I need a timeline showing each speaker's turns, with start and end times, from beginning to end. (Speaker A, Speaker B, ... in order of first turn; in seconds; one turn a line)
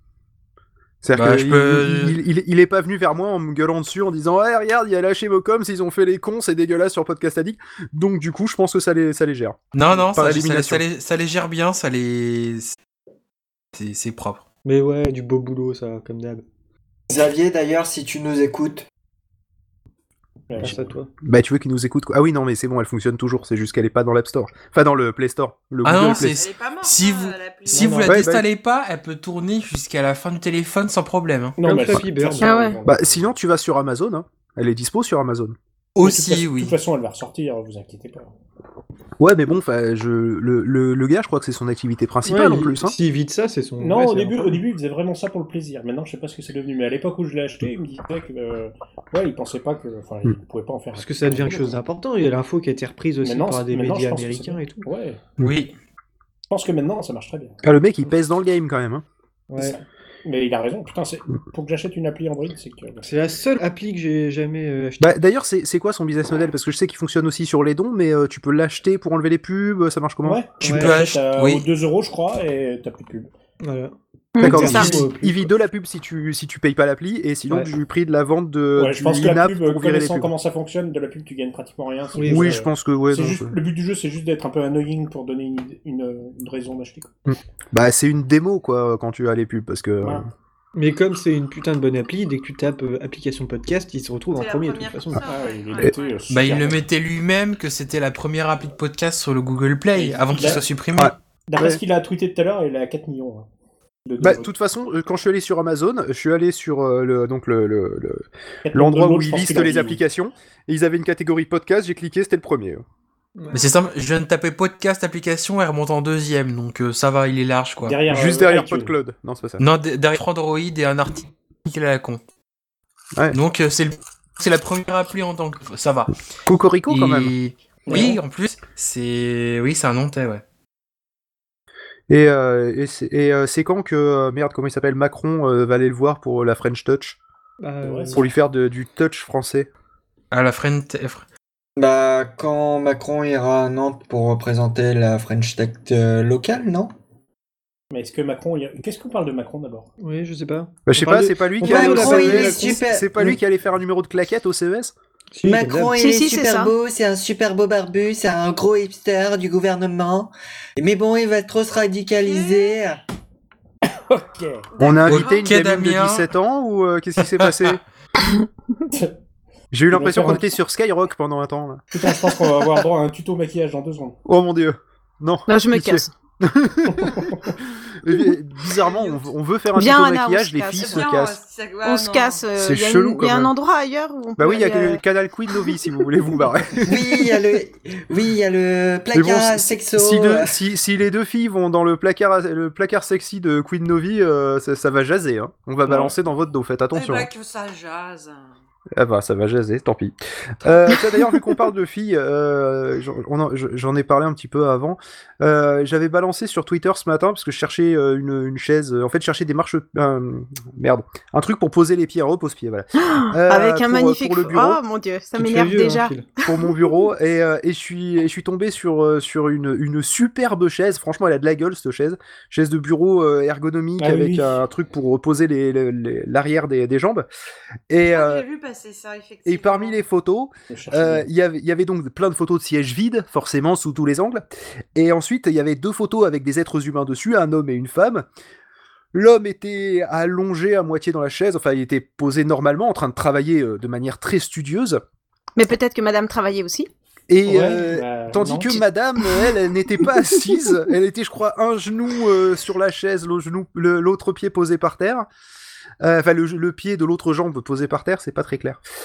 Speaker A: 1.0-10.8
Speaker B: 1.1-2.2
Speaker B: 9.7-12.7
Speaker B: 13.7-14.4
Speaker C: 14.6-16.4
Speaker D: 17.1-18.9
Speaker E: 20.5-20.9
Speaker C: 20.6-21.1
Speaker A: 21.2-26.4
Speaker B: 25.8-31.6
Speaker F: 26.3-28.1
Speaker E: 27.7-28.3
Speaker A: 28.1-28.4
Speaker E: 31.6-33.3
Speaker C: 31.6-32.5
Speaker G: 32.4-32.8
Speaker A: 32.9-35.5
Speaker B: 36.0-36.7
Speaker E: 36.0-38.3
Speaker A: 39.2-43.0
Speaker C: 42.2-44.6
Speaker E: 43.8-51.8
Speaker C: 51.0-54.9
Speaker E: 53.2-55.2
Speaker B: 55.4-55.7
Speaker E: 56.5-57.6
Speaker A: 57.6-59.0
Speaker C: 59.5-59.8
Speaker E: 59.5-63.1
Speaker C: 63.0-65.2
Speaker A: 65.0-70.5
Speaker E: 70.2-73.3
Speaker B: 70.6-71.6
Speaker C: 70.6-71.0
Speaker C: 73.6-75.5
Speaker G: 74.3-75.0
Speaker A: 74.4-80.3
Speaker E: 74.5-75.0
Speaker E: 78.8-87.1
Speaker C: 82.1-82.6
Speaker A: 82.3-83.5
Speaker A: 87.3-90.3
Speaker E: 90.0-90.3
Speaker C: 90.7-95.3
Speaker F: 94.3-96.5
Speaker E: 95.3-96.8
Speaker B: 96.3-101.1
Speaker E: 99.9-100.7
Speaker A: 101.0-101.8
Speaker E: 101.5-103.5
Speaker E: 104.0-104.5
Speaker A: 104.2-112.8
Speaker E: 108.6-110.0
Speaker C: 113.4-113.7
Speaker B: 113.5-118.0
Speaker E: 117.8-119.0
Speaker A: 118.1-119.6
Speaker B: 119.6-122.2
Speaker B: 123.3-126.1
Speaker A: 126.5-127.3
Speaker B: 126.9-130.4
Speaker E: 127.9-128.2
Speaker A: 132.1-137.2
Speaker C: 137.6-138.3
Speaker E: 137.8-138.3
Speaker A: 138.1-139.7
Speaker B: 140.3-141.2
Speaker D: 141.8-146.9
Speaker E: 147.9-149.9
Speaker C: 150.0-153.4
Speaker A: 150.9-154.9
Speaker D: 151.6-153.1
Speaker C: 155.3-155.9
Speaker D: 155.4-163.0
Speaker G: 155.9-156.7
Speaker F: 162.2-162.8
Speaker E: 163.9-164.7
Speaker F: 164.7-165.5
Speaker A: 164.8-167.8
Speaker B: 165.0-166.3
Speaker A: 169.7-171.8
Speaker E: 169.9-170.5
Speaker E: 171.9-174.2
Speaker A: 174.3-177.2
Speaker G: 175.5-176.1
Speaker E: 176.9-177.6
Speaker A: 178.0-181.4
Speaker G: 179.7-181.1
Speaker F: 180.8-182.4
Speaker G: 181.8-185.0
Speaker A: 182.6-183.5
Speaker A: 184.4-187.4
Speaker D: 186.8-190.6
Speaker A: 189.1-197.3
Speaker E: 195.9-196.1
Speaker F: 196.9-198.6
Speaker A: 198.9-214.8
Speaker G: 213.0-216.9
Speaker C: 215.4-216.3
Speaker A: 216.4-227.3
Speaker E: 224.0-224.6
Speaker A: 227.9-228.4
Speaker F: 228.1-230.0
Speaker A: 229.4-238.3
Speaker E: 230.7-231.3
Speaker A: 239.1-245.0
Speaker G: 245.6-246.9
Speaker A: 247.3-255.3
Speaker E: 247.4-248.8
Speaker A: 256.0-258.8